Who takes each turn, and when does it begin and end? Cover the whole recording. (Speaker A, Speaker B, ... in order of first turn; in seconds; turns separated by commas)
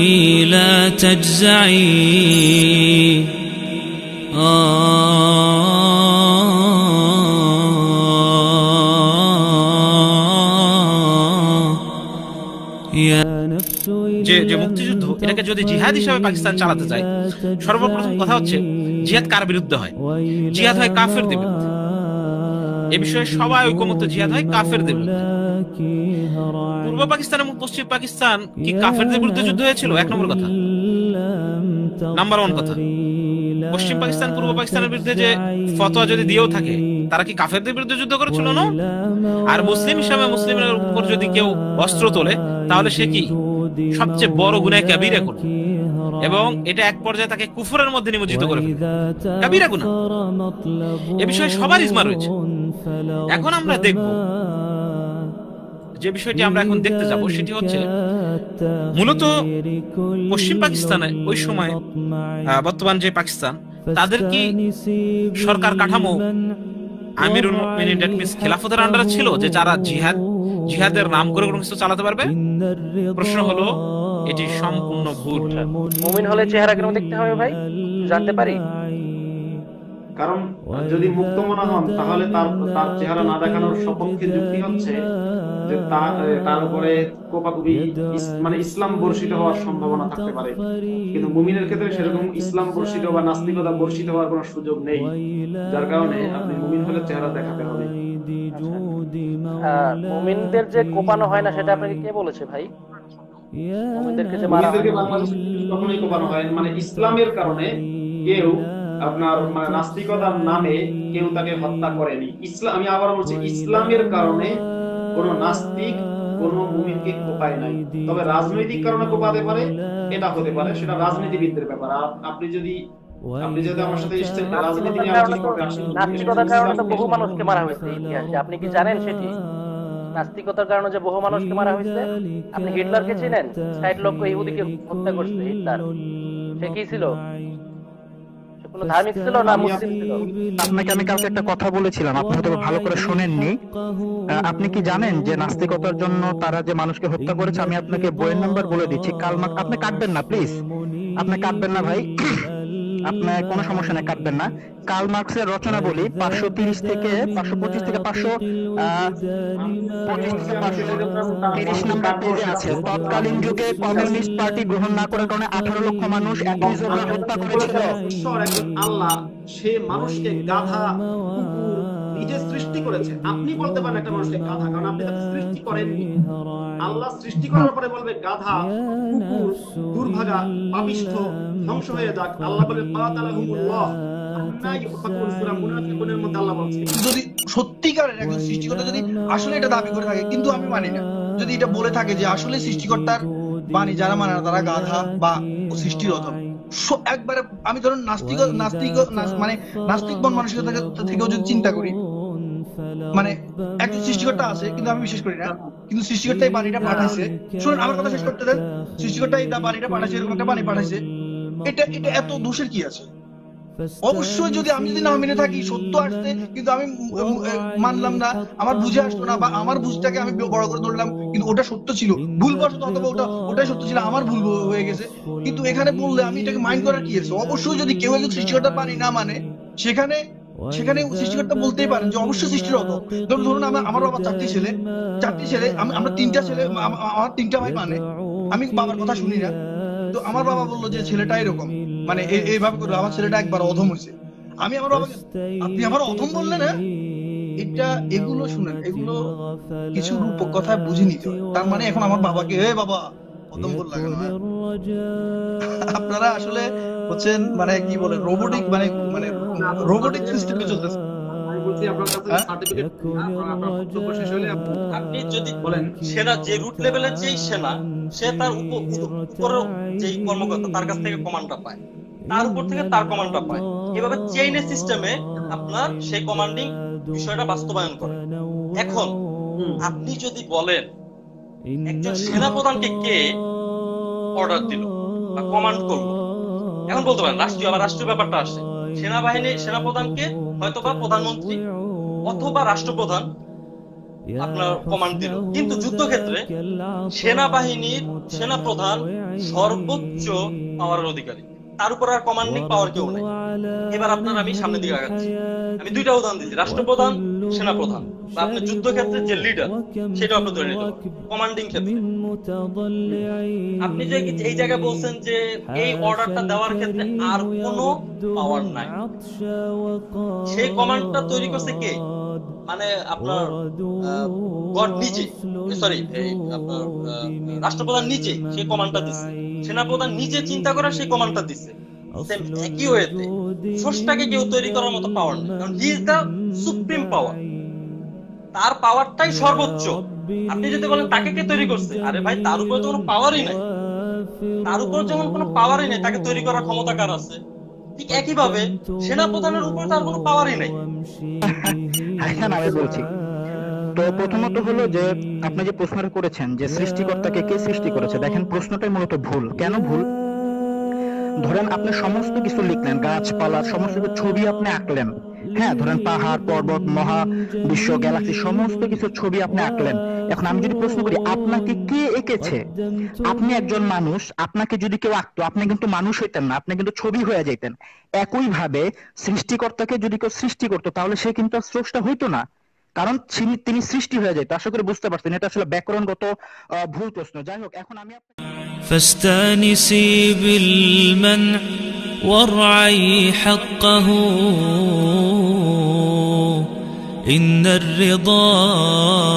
Speaker A: 0.5-2.2, Speaker A: 4.5-4.9, Speaker A: 13.1-13.4, Speaker B: 14.2-17.1, Speaker B: 17.6-19.9, Speaker B: 20.5-21.6, Speaker B: 22.9-25.2, Speaker B: 26.8-30.5, Speaker B: 32.1-32.8, Speaker B: 33.7-38.7, Speaker B: 39.5-43.3, Speaker B: 43.9-45.4, Speaker B: 46.2-48.8, Speaker B: 49.4-49.9, Speaker B: 51.2-52.2, Speaker B: 53.3-54.1, Speaker B: 56.0-57.8, Speaker B: 58.9-59.3, Speaker B: 60.3-61.8, Speaker B: 62.6-64.5, Speaker B: 65.4-66.1, Speaker B: 67.2-72.3, Speaker B: 73.2-73.7, Speaker B: 74.3-75.5, Speaker C: 75.4-78.6, Speaker D: 80.2-85.0, Speaker D: 85.7-90.6, Speaker D: 91.1-95.1, Speaker D: 95.7-97.9, Speaker C: 98.5-98.9, Speaker C: 99.7-102.7, Speaker C: 104.0-105.0, Speaker D: 104.5-107.7, Speaker D: 108.2-114.6, Speaker D: 115.1-122.7, Speaker D: 123.4-127.2, Speaker C: 124.5-129.3, Speaker A: 126.4-126.8, Speaker C: 130.1-135.8, Speaker C: 136.6-137.1, Speaker C: 138.6-140.2, Speaker D: 139.4-140.3, Speaker E: 140.6-143.6, Speaker E: 144.4-150.6, Speaker E: 151.2-152.1, Speaker E: 153.0-159.1, Speaker D: 159.5-164.2, Speaker E: 160.1-168.0, Speaker D: 166.6-176.1, Speaker D: 176.8-186.9, Speaker F: 186.9-201.9, Speaker F: 203.1-211.0, Speaker F: 211.7-213.1, Speaker F: 214.0-230.2, Speaker F: 230.7-238.0, Speaker F: 238.5-239.5, Speaker F: 240.1-246.8, Speaker F: 247.6-249.2, Speaker F: 249.9-254.3, Speaker F: 255.9-260.9, Speaker D: 259.1-260.7, Speaker D: 261.3-264.8, Speaker G: 264.9-271.8, Speaker D: 265.6-266.0, Speaker G: 272.3-278.1, Speaker G: 278.8-279.1, Speaker G: 279.8-280.9, Speaker G: 281.9-283.2, Speaker G: 284.4-286.1, Speaker G: 286.9-291.6, Speaker G: 292.2-293.3, Speaker G: 294.4-296.4, Speaker G: 297.1-303.2, Speaker G: 303.9-305.3, Speaker G: 305.8-312.0, Speaker G: 313.8-318.9, Speaker G: 320.5-322.0, Speaker G: 322.7-323.4, Speaker G: 324.1-331.7, Speaker G: 332.3-337.4, Speaker G: 338.5-343.6, Speaker G: 344.6-347.4, Speaker G: 348.0-350.7, Speaker E: 351.5-353.1, Speaker E: 353.9-360.1, Speaker E: 361.4-372.6, Speaker E: 373.2-382.4, Speaker E: 383.0-386.2, Speaker E: 386.9-388.3, Speaker A: 388.9-390.7, Speaker A: 392.3-394.2, Speaker A: 397.3-398.6